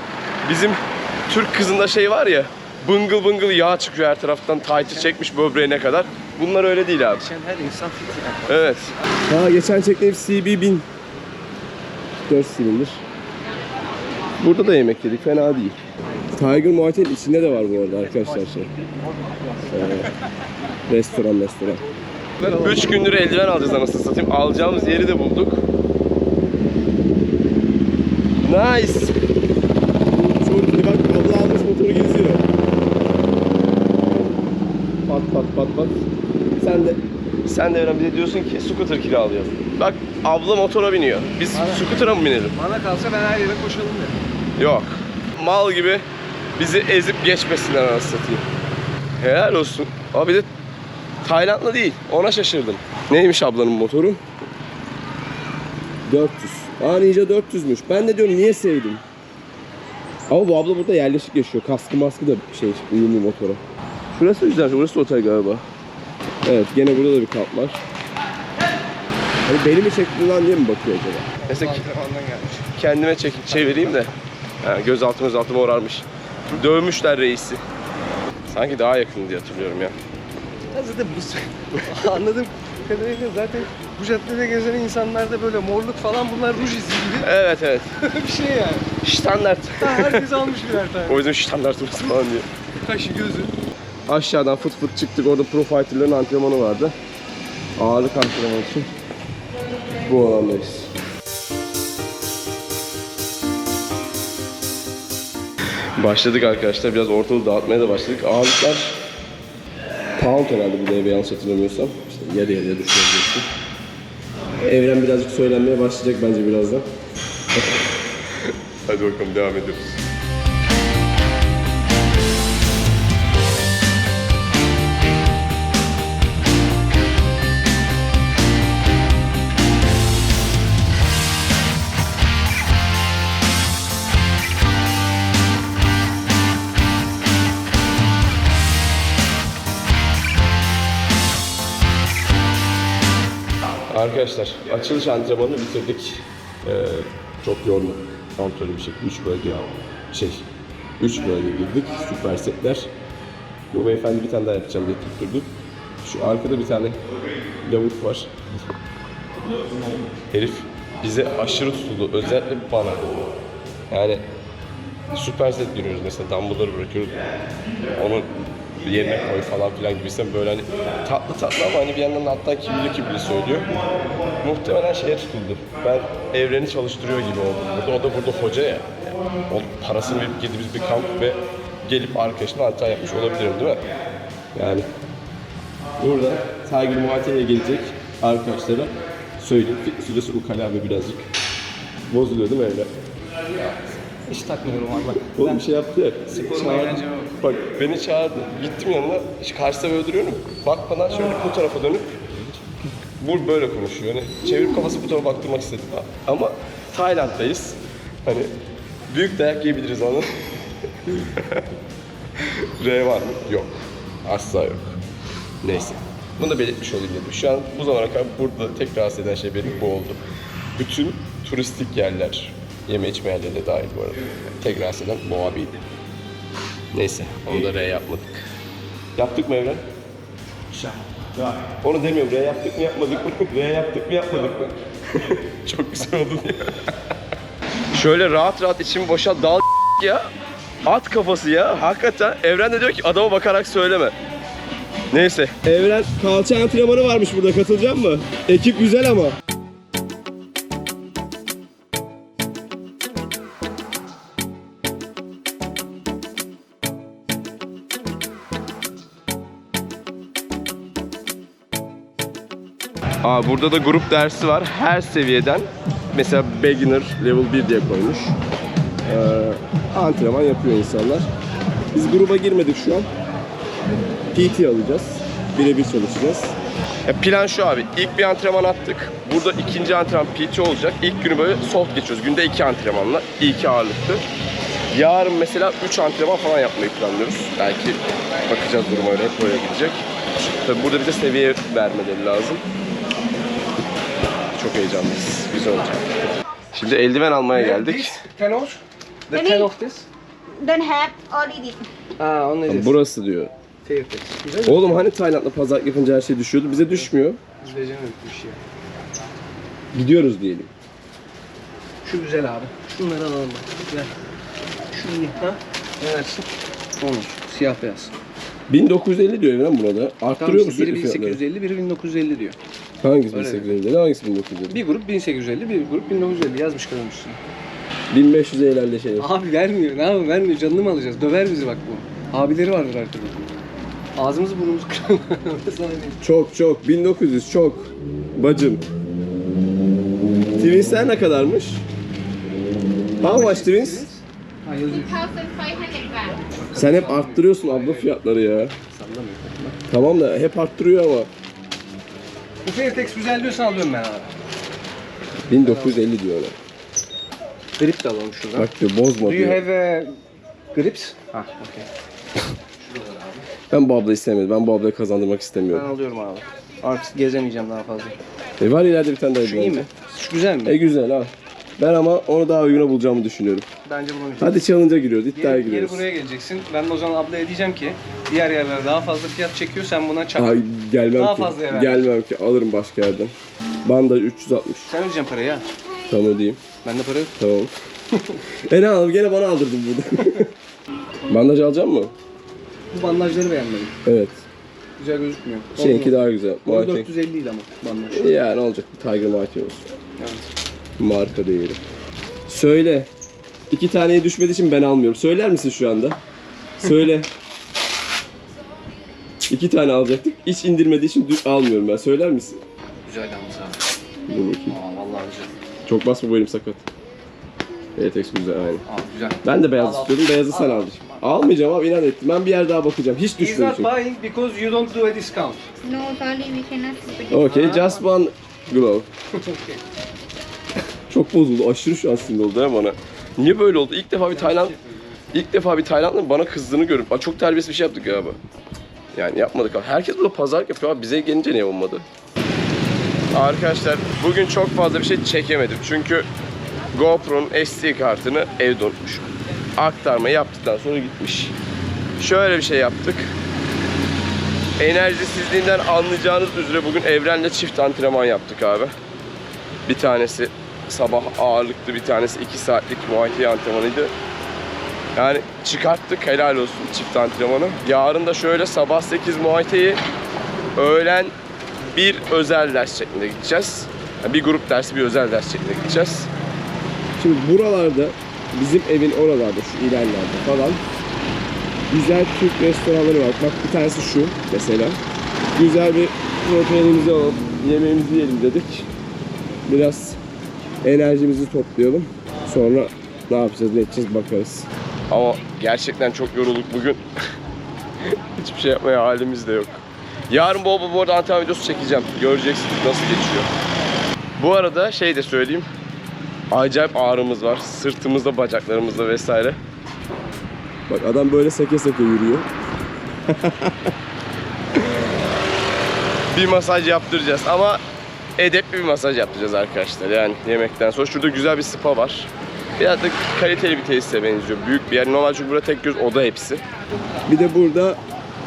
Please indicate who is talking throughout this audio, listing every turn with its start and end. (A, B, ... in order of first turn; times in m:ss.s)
0:00.4-0:07.2 A
0:04.8-0:05.1 B
0:07.1-0:09.1 B
0:08.5-0:10.8 A
0:12.3-0:13.0 A
0:14.4-0:15.8 A
0:16.3-0:18.7 A
0:17.9-0:18.3 B
0:19.0-0:19.7 B
0:19.6-0:20.1 A
0:20.9-0:21.8 A
0:22.4-0:23.0 B
0:22.4-0:25.6 A
0:28.4-0:29.1 A
0:30.1-0:32.4 A
0:35.1-0:36.0 A
0:36.6-0:42.6 A
0:41.5-0:41.9 B
0:42.5-0:44.2 B
0:44.6-0:46.0 A
0:46.6-0:48.4 A
0:49.2-0:50.5 A
0:51.2-0:54.2 A
0:56.0-0:59.0 A
1:00.3-1:03.6 A
1:04.1-1:05.6 A
1:06.4-1:07.8 A
1:09.4-1:11.8 A
1:11.4-1:12.7 B
1:12.8-1:17.6 A
1:13.5-1:14.0 B
1:18.5-1:19.9 A
1:20.7-1:27.3 B
1:27.2-1:27.9 A
1:28.0-1:29.0 B
1:29.0-1:30.5 A
1:29.8-1:31.2 B
1:31.0-1:32.5 A
1:32.8-1:33.6 B
1:34.1-1:36.9 A
1:37.8-1:38.9 A
1:40.0-1:40.9 A
1:46.0-1:49.0 A
1:50.2-1:53.4 A
1:54.6-1:56.8 A
1:58.5-2:00.0 A
2:23.9-2:30.5 A
2:31.0-2:32.9 A
2:33.7-2:37.0 A
2:37.6-2:38.3 A
2:40.3-2:43.0 A
2:43.9-2:44.2 A
2:45.1-2:47.2 A
2:47.9-2:48.2 A
2:48.8-3:03.8 A
3:04.5-3:04.9 A
3:06.0-3:11.2 A
3:12.1-3:12.9 A
3:14.2-3:15.7 B
3:15.3-3:22.5 A
3:16.3-3:17.3 B
3:23.2-3:28.5 A
3:29.1-3:30.3 A
3:31.0-3:31.7 A
3:32.4-3:35.0 A
3:35.6-3:40.2 A
3:40.8-3:45.8 A
3:46.9-3:48.4 A
3:49.2-3:49.8 A
3:51.8-3:56.8 A
3:57.9-4:00.2 A
4:00.8-4:04.1 A
4:05.1-4:09.4 A
4:23.2-4:28.4 A
4:29.0-4:31.3 A
4:31.9-4:33.1 A
4:34.3-4:44.2 A
4:44.9-4:50.0 A
4:50.6-4:52.6 A
4:54.5-4:56.1 A
4:56.7-4:58.2 A
4:57.5-5:00.1 B
4:59.3-4:59.7 C
5:00.6-5:01.8 C
5:02.2-5:03.0 B
5:02.7-5:03.5 A
5:03.8-5:05.1 B
5:04.6-5:07.4 A
5:07.6-5:08.6 B
5:09.9-5:10.7 A
5:12.0-5:14.1 B
5:14.9-5:18.1 B
5:18.7-5:21.4 A
5:20.4-5:22.6 B
5:23.0-5:24.8 A
5:23.3-5:23.7 B
5:24.7-5:27.4 B
5:28.1-5:29.3 A
5:29.2-5:33.5 B
5:34.2-5:36.2 B
5:36.2-5:38.8 A
5:40.5-5:41.8 A
5:43.2-5:49.8 B
5:43.2-5:44.0 A
5:45.7-5:46.1 C
5:46.7-5:48.7 A
5:49.9-5:51.3 A
5:52.6-5:54.3 B
5:55.5-5:56.6 A
5:55.5-5:56.0 B
5:57.8-5:58.7 B
5:58.6-5:59.6 A
5:59.2-6:00.1 B
6:00.7-6:01.9 B
6:02.8-6:03.4 B
6:03.7-6:05.9 A
6:05.7-6:08.2 B
6:08.6-6:09.9 A
6:09.4-6:10.8 B
6:10.6-6:13.7 A
6:13.8-6:14.7 B
6:14.4-6:16.1 A
6:15.3-6:20.6 B
6:20.4-6:23.3 A
6:21.1-6:22.1 B
6:23.8-6:24.9 A
6:24.9-6:25.7 B
6:26.1-6:26.6 A
6:26.8-6:27.4 B
6:27.4-6:27.7 A
6:28.6-6:30.5 A
6:31.3-6:32.1 A
6:32.9-6:34.0 B
6:34.0-6:34.4 A
6:35.0-6:38.3 B
6:35.8-6:37.1 A
6:38.1-6:40.0 A
6:40.2-6:40.5 B
6:41.0-6:41.8 A
6:42.5-6:43.1 A
6:43.7-6:46.2 A
6:46.8-6:47.3 A
6:49.5-6:52.6 A
6:53.0-6:53.8 B
6:54.3-6:54.8 A
6:54.7-6:55.5 B
6:55.8-6:56.8 A
6:58.0-6:58.8 A
6:58.8-7:01.3 B
6:59.4-7:03.9 A
7:03.4-7:05.7 B
7:05.8-7:07.4 C
7:07.3-7:09.1 A
7:07.5-7:08.0 B
7:09.3-7:09.8 B
7:11.1-7:14.8 A
7:14.3-7:15.2 B
7:15.3-7:18.4 A
7:19.1-7:22.0 A
7:23.3-7:26.3 A
7:26.9-7:31.5 A
7:32.2-7:33.3 A
7:34.8-7:38.9 A
7:39.8-7:44.1 A
7:45.2-7:50.0 A
7:50.8-7:51.3 A
7:51.9-7:56.3 A
7:57.2-8:00.8 A
8:01.9-8:05.0 A
8:05.5-8:08.9 A
8:09.7-8:10.2 A
8:10.8-8:17.0 A
8:18.1-8:23.5 A
8:24.4-8:25.7 A
8:26.5-8:29.6 A
8:30.9-8:32.5 A
8:33.3-8:33.9 A
8:36.3-8:37.8 A
8:38.4-8:46.6 A
8:47.3-8:48.0 A